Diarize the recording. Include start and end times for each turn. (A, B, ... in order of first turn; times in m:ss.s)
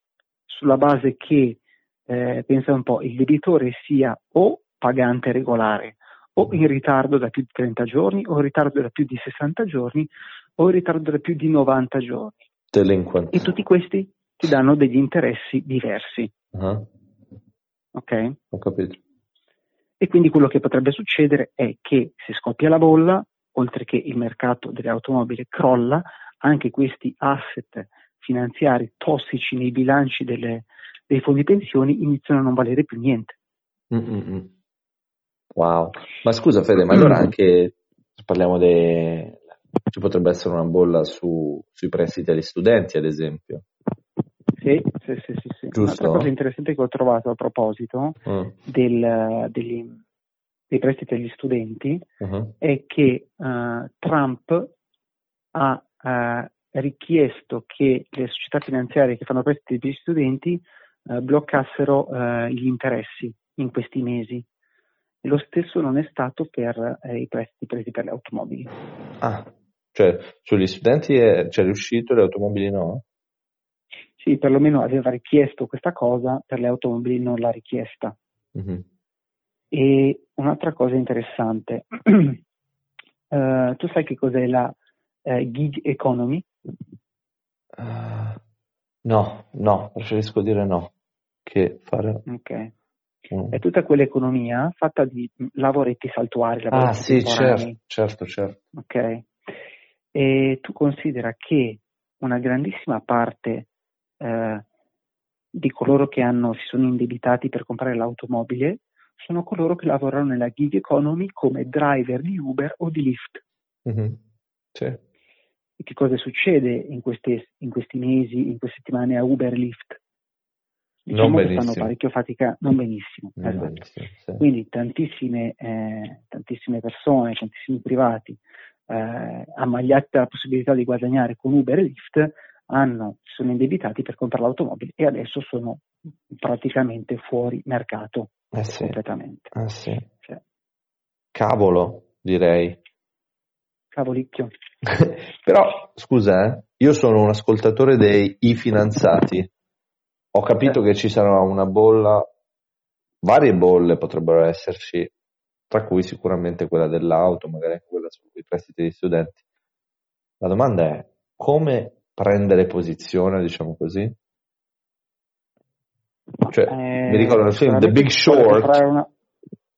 0:00.5-0:12.4 A
0:12.7-0:13.4 B
0:13.3-0:16.3 A
0:16.5-0:16.9 B
0:18.0-0:18.4 A
0:18.5-0:19.0 B
0:20.0-0:33.4 A
0:33.9-0:34.5 B
0:35.6-0:43.6 B
0:44.6-0:50.0 A
0:45.7-0:46.3 B
0:48.2-0:48.5 B
0:50.7-0:52.0 A
0:52.2-0:52.5 B
0:52.6-0:54.7 A
0:55.5-1:04.4 A
1:05.2-1:08.7 A
1:09.2-1:13.0 B
1:14.2-1:18.2 A
1:18.6-1:18.8 B
1:19.7-1:22.4 A
1:23.3-1:26.5 A
1:27.8-1:28.4 B
1:29.0-1:30.9 B
1:31.4-1:32.2 B
1:32.3-1:32.7 A
1:33.3-1:33.6 B
1:33.5-1:37.8 A
1:36.7-1:38.6 B
1:38.8-1:39.3 A
1:40.1-1:43.7 A
1:44.2-1:44.6 A
1:45.5-1:53.4 A
1:53.8-1:54.2 B
1:54.7-1:55.0 B
1:55.8-2:00.0 A
2:01.1-2:03.8 A
2:01.1-2:01.9 B
2:03.4-2:04.4 B
2:04.4-2:19.5 A
2:18.5-2:19.0 B
2:19.5-2:20.1 B
2:21.3-2:22.8 B
2:23.9-2:24.5 A
2:24.8-2:29.5 B
2:30.3-2:32.3 B
2:33.2-2:35.1 B
2:35.7-2:39.4 B
2:40.4-2:44.2 B
2:46.5-2:48.8 B
2:46.7-2:49.1 A